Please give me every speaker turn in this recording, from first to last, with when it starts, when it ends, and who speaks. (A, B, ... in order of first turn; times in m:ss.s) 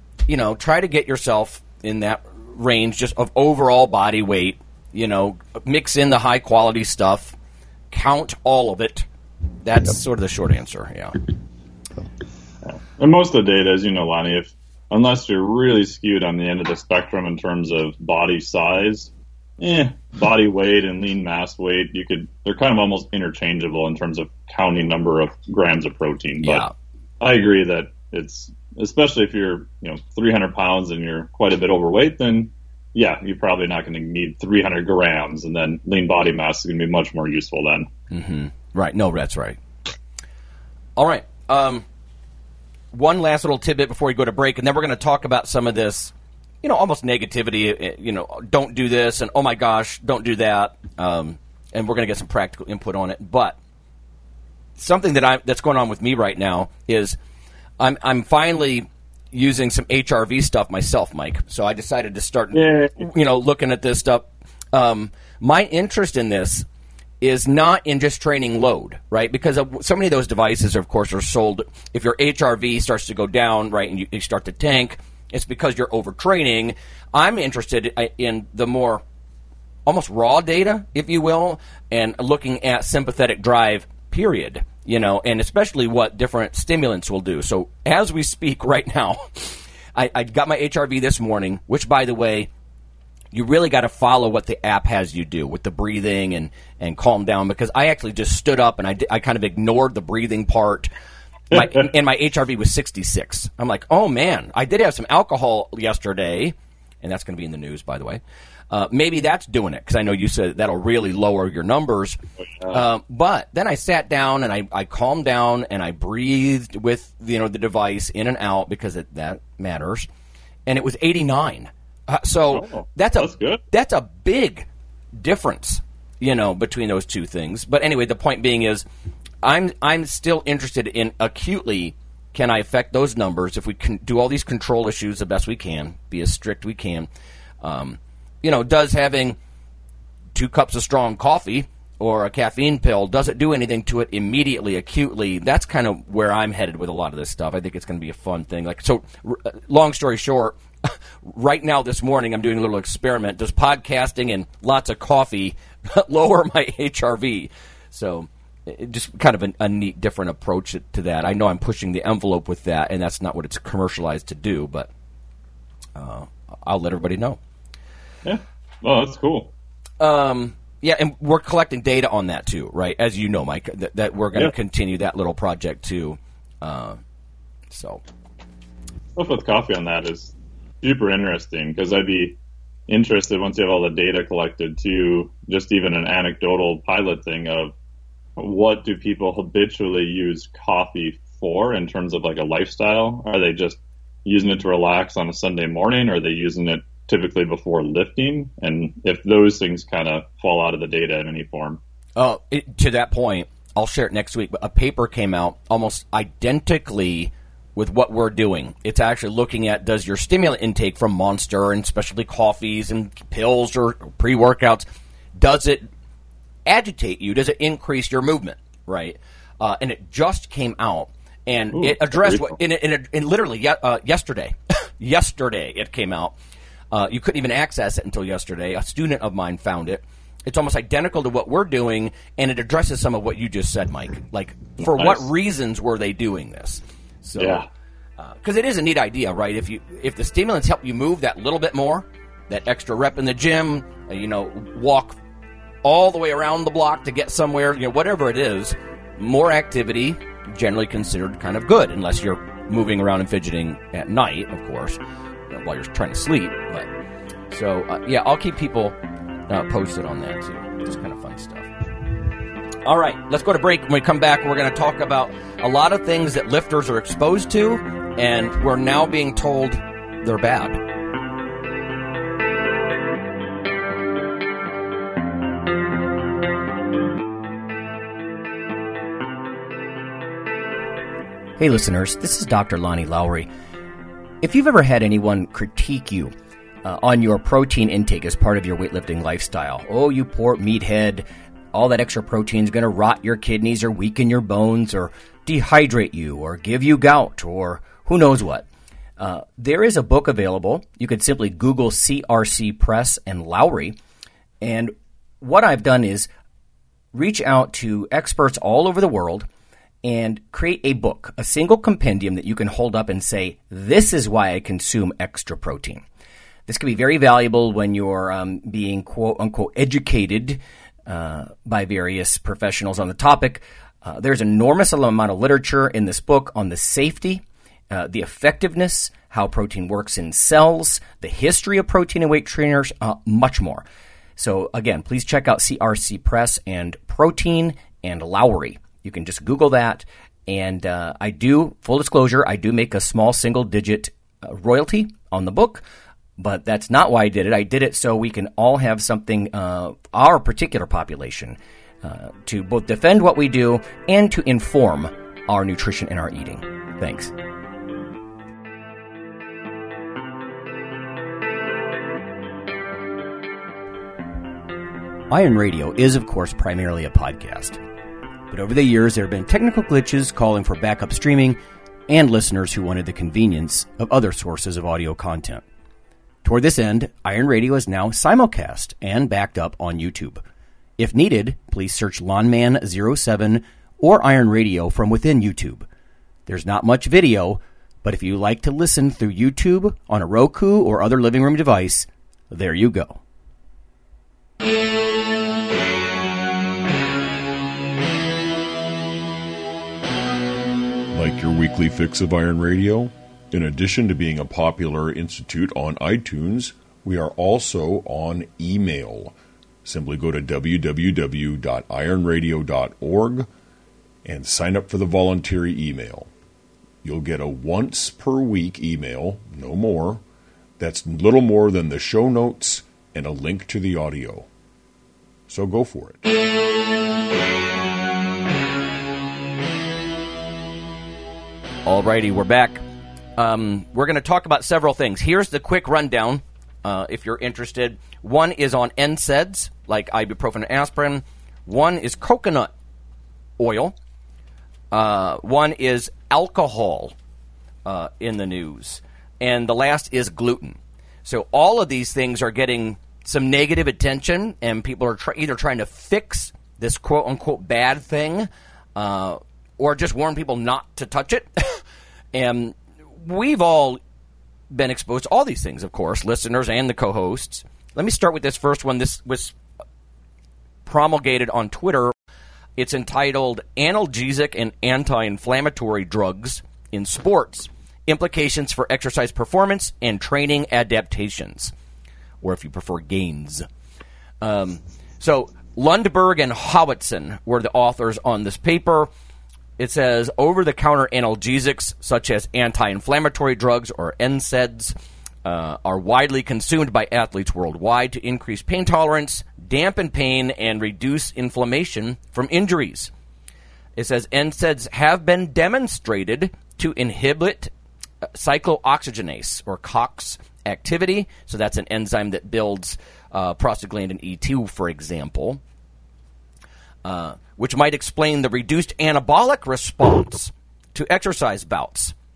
0:00.3-0:07.4 A
0:07.9-0:09.1 A
0:09.6-0:11.2 A
0:12.6-0:26.7 B
0:26.4-0:26.7 A
0:27.2-0:37.9 B
0:38.1-0:39.6 A
0:41.0-0:41.8 A
0:42.9-0:53.6 A
0:54.8-0:57.2 A
0:57.8-1:06.7 A
1:02.5-1:03.0 B
1:07.2-1:19.0 A
1:19.9-1:32.5 A
1:33.3-1:40.9 A
1:41.5-2:00.1 A
1:52.6-1:52.8 B
2:00.7-2:04.7 A
2:02.5-2:03.6 B
2:05.2-2:08.9 A
2:09.4-2:17.1 A
2:17.6-2:19.4 A
2:20.3-2:44.9 A
2:46.0-2:47.4 A
2:48.2-2:49.5 B
2:50.0-2:57.0 A
2:57.7-2:58.0 A
2:59.2-3:02.4 B
3:02.9-3:07.7 B
3:08.4-3:21.8 B
3:22.2-3:35.9 A
3:36.7-3:46.4 A
3:41.8-3:42.6 B
3:46.9-3:57.7 A
3:54.8-3:55.3 B
3:57.4-3:57.7 B
3:58.2-4:05.2 A
4:05.8-4:15.0 A
4:15.5-4:16.9 A
4:17.5-4:19.0 A
4:19.5-4:21.7 A
4:22.8-4:30.8 A
4:41.6-4:43.5 C
4:44.4-4:58.6 C
4:59.2-5:04.0 C
5:04.6-5:06.3 C
5:07.1-5:09.5 C
5:10.0-5:16.0 C
5:16.7-5:33.8 C
5:34.4-5:45.8 C
5:46.4-5:57.3 C
6:05.3-6:07.8 C
6:08.5-6:15.6 C
6:16.4-6:20.4 C
6:21.0-6:25.9 C
6:26.5-6:33.2 C
6:41.1-6:53.5 D
6:54.2-6:56.3 D
6:57.0-7:00.2 D
7:00.8-7:04.5 D
7:05.5-7:06.2 D
7:11.9-7:12.8 A
7:13.4-7:22.7 A
7:23.6-7:24.0 A
7:24.9-7:27.2 A
7:27.8-7:41.8 A
7:42.3-7:44.0 A
7:44.7-7:49.6 A
7:50.8-7:52.1 A
7:52.8-8:01.7 A
8:02.4-8:03.7 A
8:04.4-8:09.1 A
8:09.8-8:23.1 A
8:24.0-8:27.7 A
8:28.3-8:35.6 A
8:37.0-8:42.1 A